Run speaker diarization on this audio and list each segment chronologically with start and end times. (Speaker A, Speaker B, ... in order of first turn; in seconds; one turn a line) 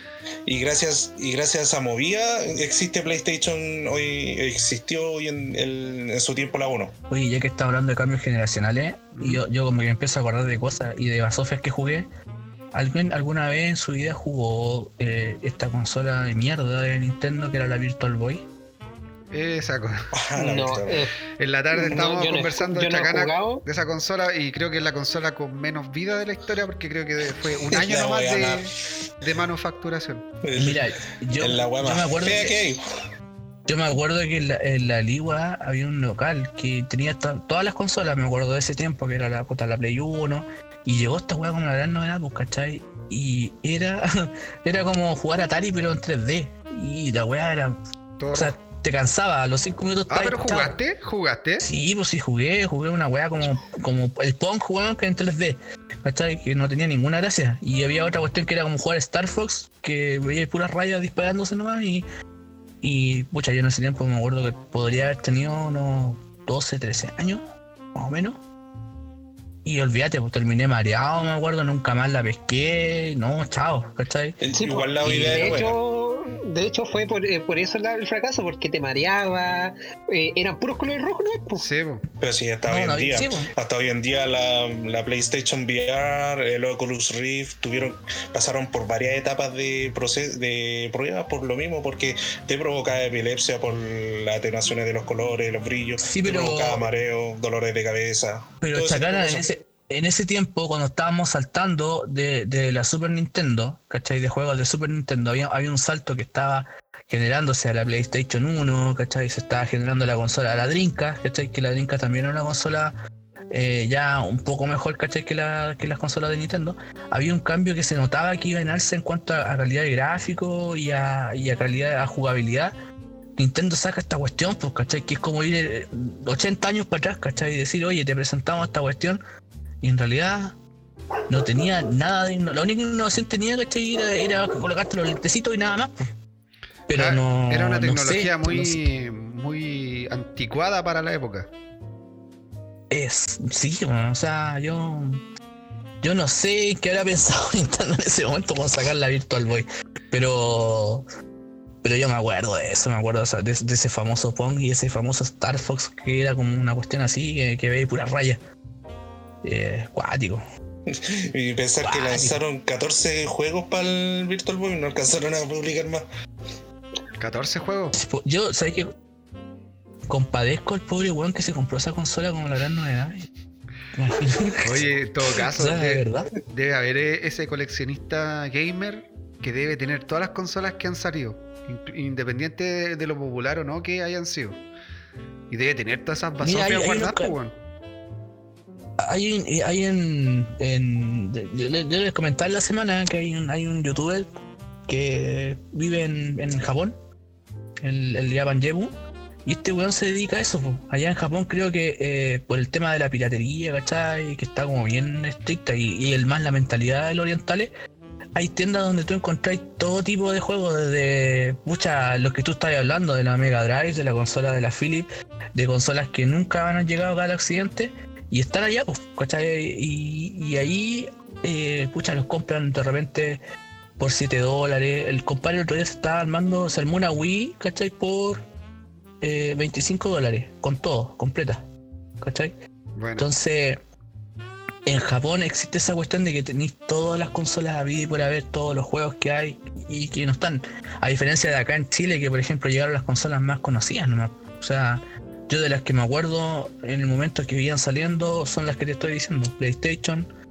Speaker A: 0.5-6.9
Speaker B: 7.1-12.1
Speaker C: 9.2-9.4
Speaker B: 12.7-18.5
Speaker C: 19.3-20.1
Speaker A: 20.1-21.0
Speaker D: 20.4-21.1
Speaker C: 21.3-30.3
Speaker D: 21.7-23.6
Speaker A: 27.7-28.7
Speaker A: 30.4-30.9
Speaker B: 30.6-32.6
Speaker A: 31.4-32.8
Speaker B: 33.7-47.8
Speaker C: 48.2-48.5
Speaker B: 48.3-50.8
Speaker C: 50.1-51.7
Speaker B: 51.6-62.1
Speaker B: 62.8-67.4
Speaker B: 68.0-68.4
Speaker B: 69.7-74.4
Speaker A: 74.4-75.8
Speaker D: 74.6-81.6
Speaker B: 75.0-75.7
Speaker C: 81.5-82.0
Speaker A: 82.2-99.5
Speaker B: 82.7-83.5
Speaker B: 96.0-96.9
Speaker B: 98.6-113.0
Speaker B: 113.5-122.8
Speaker B: 123.4-129.2
Speaker B: 129.8-130.6
Speaker B: 131.3-136.1
Speaker B: 136.9-138.8
Speaker C: 136.9-141.5
Speaker B: 142.9-145.2
Speaker B: 146.0-151.1
Speaker B: 151.8-158.4
Speaker B: 159.4-160.4
Speaker A: 160.9-166.1
Speaker B: 161.8-162.4
Speaker C: 167.2-167.9
Speaker B: 167.9-168.9
Speaker B: 170.1-173.3
Speaker B: 173.9-176.3
Speaker C: 174.6-184.6
Speaker C: 185.5-187.6
Speaker B: 186.4-187.4
Speaker B: 189.0-194.3
Speaker B: 194.9-197.0
Speaker B: 197.8-198.9
Speaker B: 199.4-207.7
Speaker B: 208.3-223.4
Speaker B: 224.0-228.4
Speaker B: 229.2-231.7
Speaker B: 232.2-232.5
Speaker C: 233.0-233.3
Speaker B: 233.2-233.8
Speaker B: 234.9-250.3